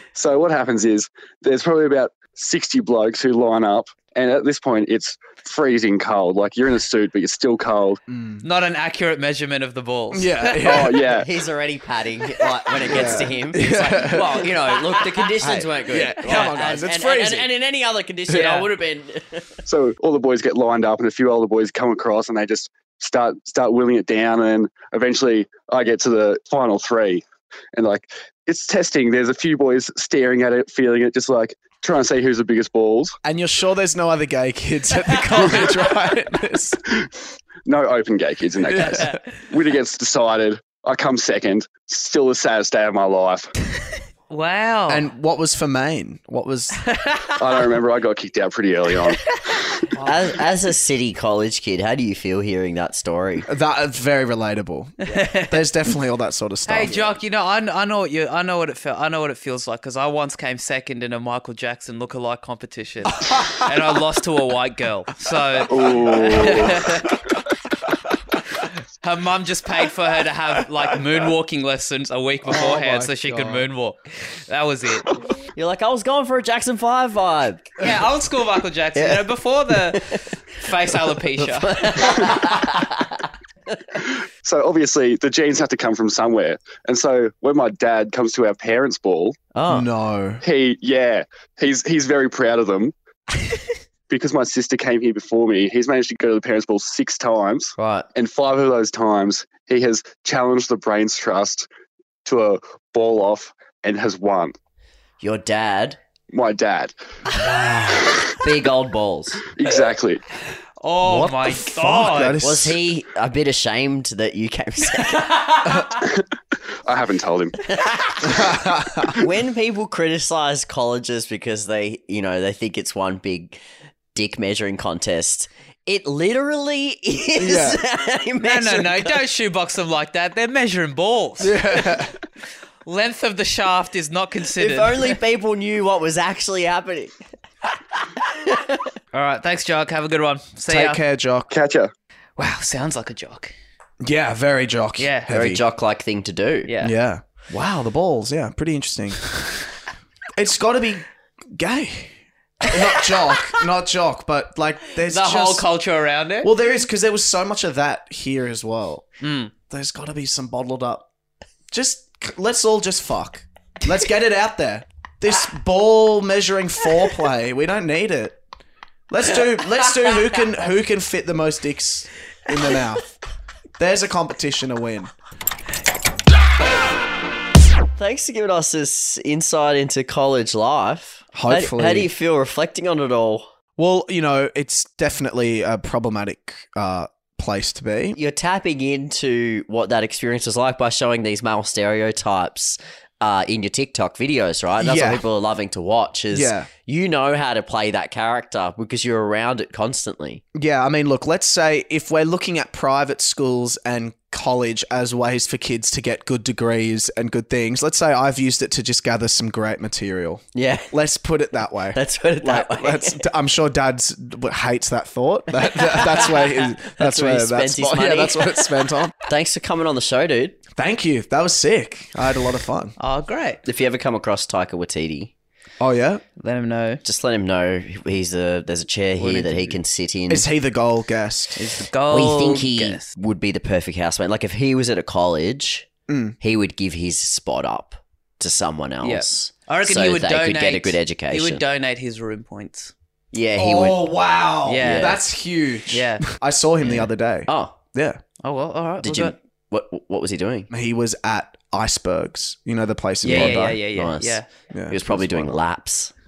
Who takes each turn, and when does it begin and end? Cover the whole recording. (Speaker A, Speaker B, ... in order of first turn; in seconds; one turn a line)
Speaker A: 0.1-8.0
Speaker B: 8.1-8.4
Speaker C: 8.4-10.9
Speaker B: 10.1-11.0
Speaker A: 10.6-11.3
Speaker D: 11.1-19.6
Speaker B: 12.9-14.5
Speaker B: 15.4-17.5
Speaker C: 16.2-16.7
Speaker B: 18.3-18.6
Speaker C: 18.3-18.6
Speaker A: 19.7-27.2
Speaker A: 27.8-33.1
Speaker B: 33.2-36.8
Speaker A: 37.6-43.5
Speaker B: 38.6-39.1
Speaker C: 38.8-39.3
Speaker C: 44.3-45.1
Speaker B: 44.9-46.8
Speaker C: 46.8-47.6
Speaker A: 47.4-49.5
Speaker C: 49.5-50.1
Speaker D: 50.0-53.5
Speaker B: 53.5-57.1
Speaker C: 55.0-55.6
Speaker C: 56.6-67.2
Speaker B: 63.3-63.6
Speaker A: 65.7-66.9
Speaker B: 65.8-66.9
Speaker C: 68.6-75.2
Speaker B: 72.4-73.7
Speaker D: 75.5-77.8
Speaker C: 77.8-82.3
Speaker D: 79.0-80.2
Speaker D: 80.9-83.8
Speaker A: 84.0-89.4
Speaker D: 89.5-89.9
Speaker B: 89.7-90.4
Speaker A: 90.4-92.9
Speaker A: 94.1-101.7
Speaker D: 97.8-98.1
Speaker A: 102.2-104.5
Speaker D: 105.2-106.0
Speaker A: 106.3-107.0
Speaker D: 107.4-109.5
Speaker A: 109.5-110.2
Speaker C: 110.8-112.4
Speaker B: 111.0-112.8
Speaker D: 112.4-115.5
Speaker C: 115.4-115.9
Speaker A: 116.0-116.2
Speaker A: 116.9-117.6
Speaker D: 117.6-118.6
Speaker B: 118.2-119.2
Speaker D: 119.1-123.6
Speaker D: 124.1-129.2
Speaker B: 127.4-127.8
Speaker C: 128.4-131.8
Speaker B: 131.4-132.2
Speaker C: 132.8-135.2
Speaker D: 134.6-137.1
Speaker D: 138.3-138.9
Speaker C: 139.1-141.0
Speaker B: 140.7-141.5
Speaker A: 141.5-141.9
Speaker C: 142.4-143.5
Speaker B: 144.0-145.6
Speaker C: 145.0-145.3
Speaker D: 145.3-146.7
Speaker C: 146.7-146.9
Speaker B: 146.8-149.3
Speaker B: 150.3-155.7
Speaker C: 155.1-156.5
Speaker B: 156.4-159.1
Speaker C: 159.2-159.5
Speaker B: 159.7-161.1
Speaker B: 161.7-168.4
Speaker B: 169.1-173.1
Speaker B: 173.8-175.1
Speaker D: 178.0-183.5
Speaker B: 181.3-182.1
Speaker B: 183.8-188.2
Speaker D: 188.2-200.4
Speaker B: 194.8-195.2
Speaker B: 196.3-196.7
Speaker B: 200.6-219.1
Speaker D: 210.6-210.9
Speaker D: 211.9-213.3
Speaker D: 215.6-220.6
Speaker B: 220.7-222.9
Speaker C: 223.0-223.6
Speaker D: 223.6-225.3
Speaker B: 225.8-226.2
Speaker C: 226.4-227.0
Speaker D: 227.0-230.5
Speaker C: 229.2-229.8
Speaker B: 230.3-231.7
Speaker C: 231.6-233.1
Speaker D: 232.1-235.9
Speaker B: 236.1-236.4
Speaker D: 236.4-241.6
Speaker C: 239.0-242.9
Speaker D: 243.3-244.0
Speaker B: 243.6-248.2
Speaker C: 244.6-245.2
Speaker D: 244.8-245.2
Speaker C: 245.9-246.2
Speaker D: 246.8-247.8
Speaker C: 248.4-249.3
Speaker D: 249.0-250.7
Speaker B: 250.7-253.8
Speaker C: 253.2-254.4
Speaker D: 253.3-256.1
Speaker B: 254.7-255.6